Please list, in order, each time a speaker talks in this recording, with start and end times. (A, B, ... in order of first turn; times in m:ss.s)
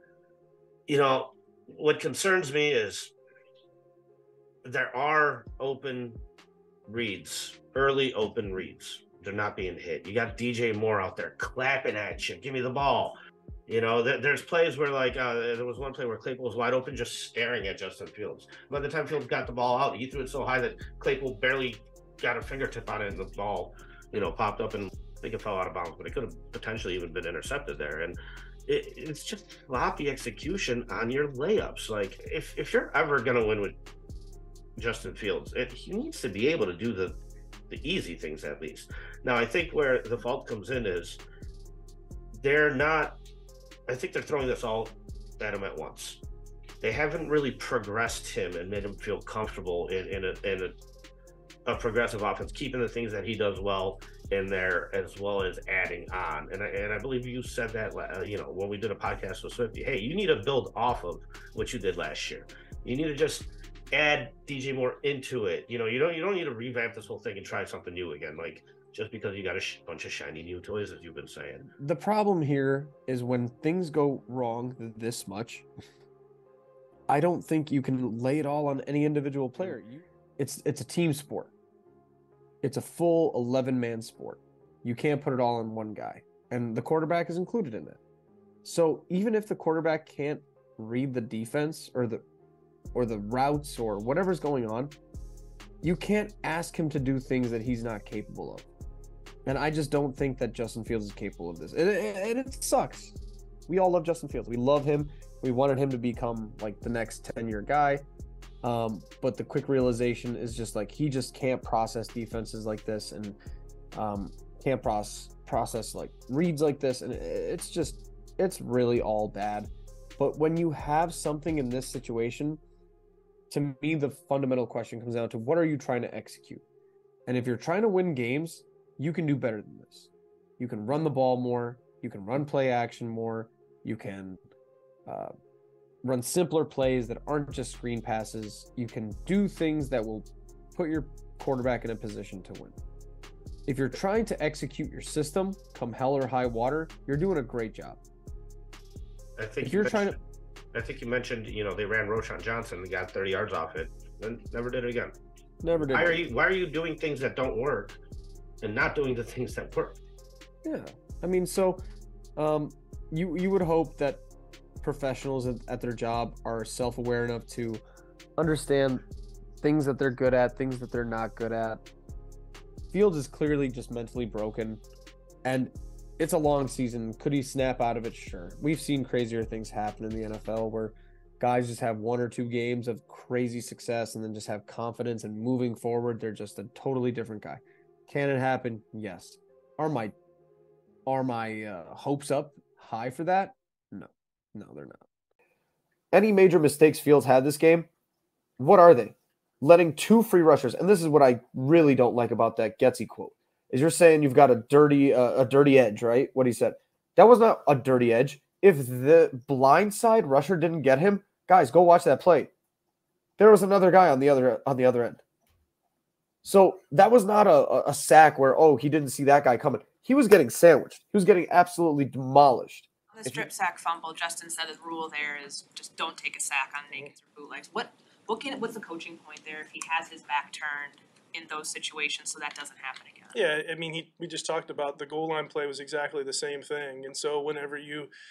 0:00.9-0:03.1 A
0:04.6-0:06.2 A
0:06.9-0:33.8 A
0:34.8-0:37.2 A
0:37.7-0:41.2 A
0:42.3-0:43.2 A
0:43.9-0:46.2 A
0:46.8-0:50.8 A
0:51.7-1:11.7 A
1:11.8-1:15.7 B
1:17.1-1:21.5 B
1:22.6-1:28.0 B
1:28.6-1:32.2 B
1:32.9-1:35.0 B
1:35.8-1:38.7 B
1:39.4-1:43.2 B
1:43.7-1:48.0 B
1:48.6-1:53.4 B
1:53.9-2:02.6 B
2:03.5-2:06.6 B
2:07.3-2:14.4 B
2:15.1-2:15.3 B
2:16.0-2:22.8 B
2:23.7-2:28.0 B
2:29.4-2:30.2 A
2:29.6-2:30.2 B
2:30.7-2:35.2 A
2:35.6-2:36.2 B
2:35.8-2:38.0 A
2:38.6-2:40.0 A
2:40.6-2:41.8 B
2:42.4-2:44.2 B
2:44.8-2:47.8 B
2:48.4-2:49.0 B
2:49.6-2:51.8 B
2:52.9-2:54.8 B
2:55.4-3:10.2 B
3:11.1-3:15.0 B
3:16.1-3:17.9 B
3:18.6-3:32.5 B
3:33.4-3:35.2 B
3:36.4-3:43.5 B
3:43.1-3:53.4 C
3:53.3-3:58.1 D